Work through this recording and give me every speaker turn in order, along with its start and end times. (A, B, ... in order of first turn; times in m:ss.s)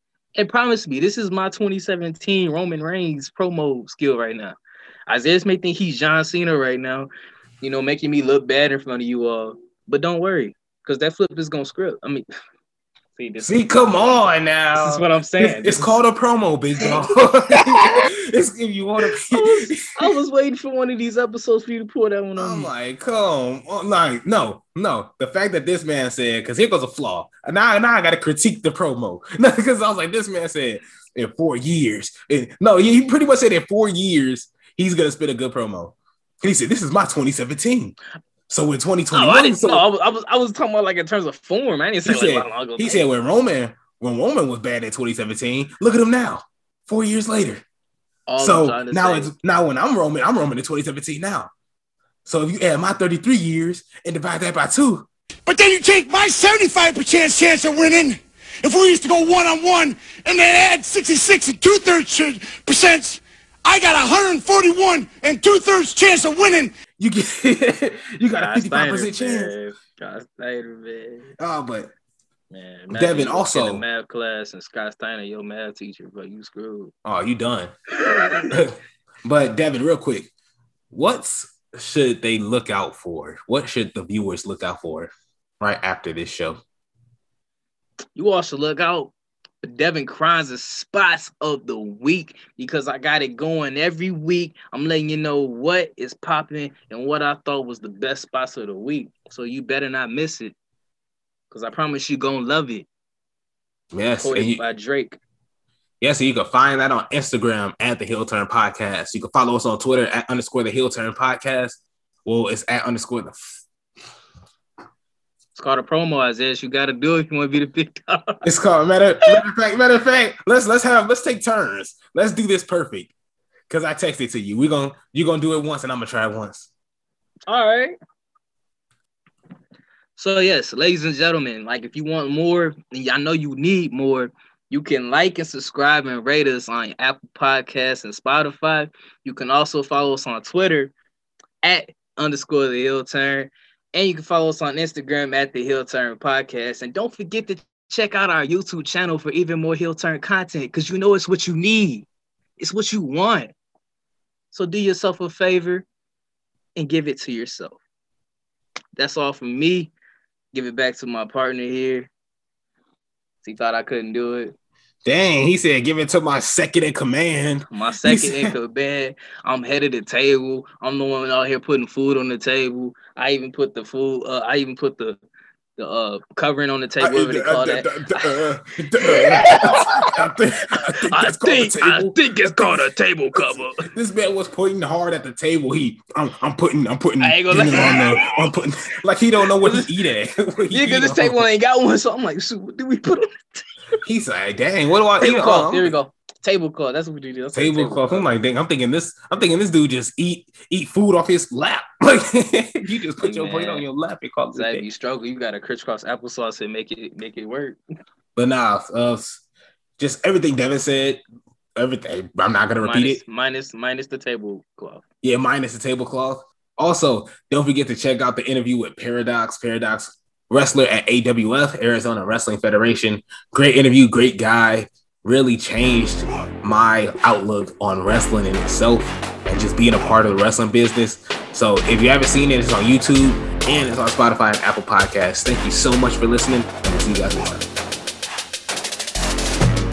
0:00.4-0:07.1 A
0:07.6-0:12.2 A
0:13.2-0:16.0 A
0:13.4-0:20.0 B
0:19.3-0:22.7 A
0:22.4-0:38.0 B
0:38.5-0:39.8 B
0:39.1-0:43.0 A
0:42.0-0:47.6 B
0:48.3-0:49.3 A
0:48.4-0:51.5 B
0:52.2-0:55.1 B
0:55.5-1:06.7 C
1:07.0-1:09.5 B
1:08.3-1:11.3 A
1:11.4-1:11.9 B
1:12.5-1:16.9 A
1:12.9-1:13.8 B
1:17.0-1:17.7 B
1:18.0-1:18.5 A
1:18.5-1:20.3 B
1:20.9-1:26.6 B
1:28.2-1:40.5 A
1:41.5-1:42.9 A
1:43.9-1:44.6 B
1:44.2-1:45.2 A
1:46.0-1:53.6 B
1:55.6-1:58.4 A
1:58.4-2:03.1 B
2:03.7-2:06.7 B
2:07.5-2:08.0 A
2:10.2-2:20.9 A
2:21.6-2:32.1 A
2:32.6-2:33.5 A
2:34.5-2:35.8 A
2:36.8-2:37.8 A
2:39.0-2:39.9 A
2:40.5-2:42.1 A
2:43.4-2:44.6 A
2:45.0-2:48.5 B
2:47.7-2:55.2 A
2:55.8-2:58.3 A
2:57.0-3:02.7 B
2:59.0-3:00.1 A
3:01.0-3:03.9 A
3:03.8-3:11.4 B
3:07.2-3:08.3 A
3:09.6-3:09.9 A
3:10.7-3:13.6 A
3:14.0-3:15.9 B
3:15.2-3:18.3 A
3:17.5-3:24.8 B
3:23.2-3:23.8 A
3:24.5-3:27.8 A
3:28.4-3:29.4 B
3:30.0-3:31.2 B
3:31.8-3:33.2 B
3:32.8-3:35.0 A
3:35.2-3:57.7 B